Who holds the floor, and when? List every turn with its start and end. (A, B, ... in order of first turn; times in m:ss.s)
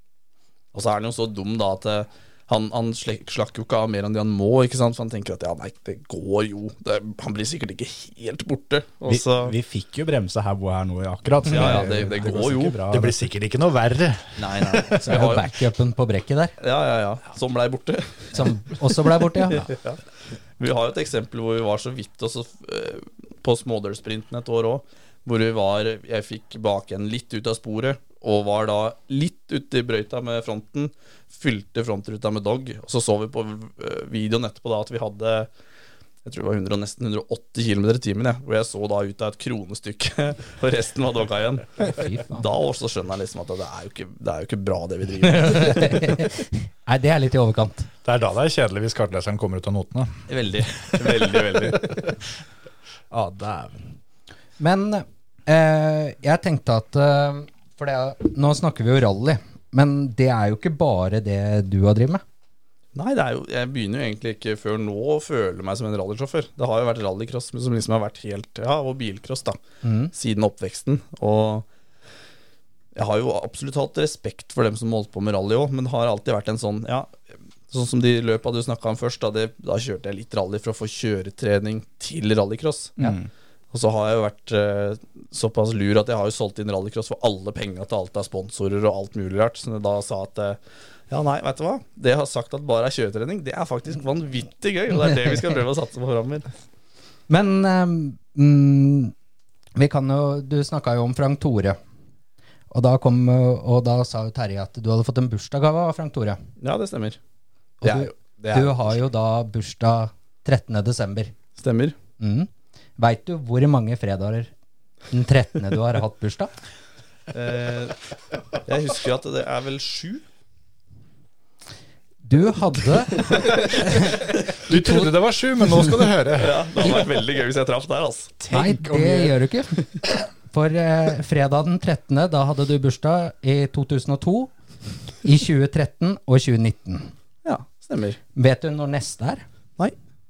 0:00.7-0:09.6 A
0:09.1-0:13.2 B
0:11.5-0:12.8 A
0:12.9-0:14.8 C
0:14.4-0:15.5 A
0:14.9-0:16.6 D
0:16.6-0:18.8 A
0:18.3-0:19.6 D
0:19.4-0:20.0 A
0:20.6-0:35.5 A
0:36.2-0:46.2 A
0:41.8-0:42.5 D
0:45.2-0:47.9 D
0:48.0-0:50.1 C
0:50.3-0:52.1 A
0:53.1-0:53.7 B
0:54.6-1:02.2 D
1:03.0-1:09.6 A
1:09.8-1:10.1 D
1:10.1-1:11.7 A
1:13.0-1:17.1 A
1:17.7-1:23.0 A
1:23.0-1:23.3 B
1:23.7-1:30.6 A
1:31.1-1:36.5 A
1:37.3-1:39.1 D
1:39.8-1:41.8 D
1:42.7-1:46.4 D
1:46.6-1:47.2 A
1:47.8-1:48.9 A
1:47.8-1:51.3 D
1:51.6-1:52.0 A
1:52.2-1:54.5 D
1:55.1-1:56.5 D
1:57.3-1:58.0 A
1:58.6-2:00.2 A
2:02.2-2:06.0 D
2:03.2-2:03.6 A
2:04.6-2:06.6 C
2:06.3-2:08.3 A
2:08.4-2:09.4 B
2:08.5-2:14.5 D
2:15.2-2:17.1 D
2:17.4-2:18.2 A
2:18.4-2:19.4 D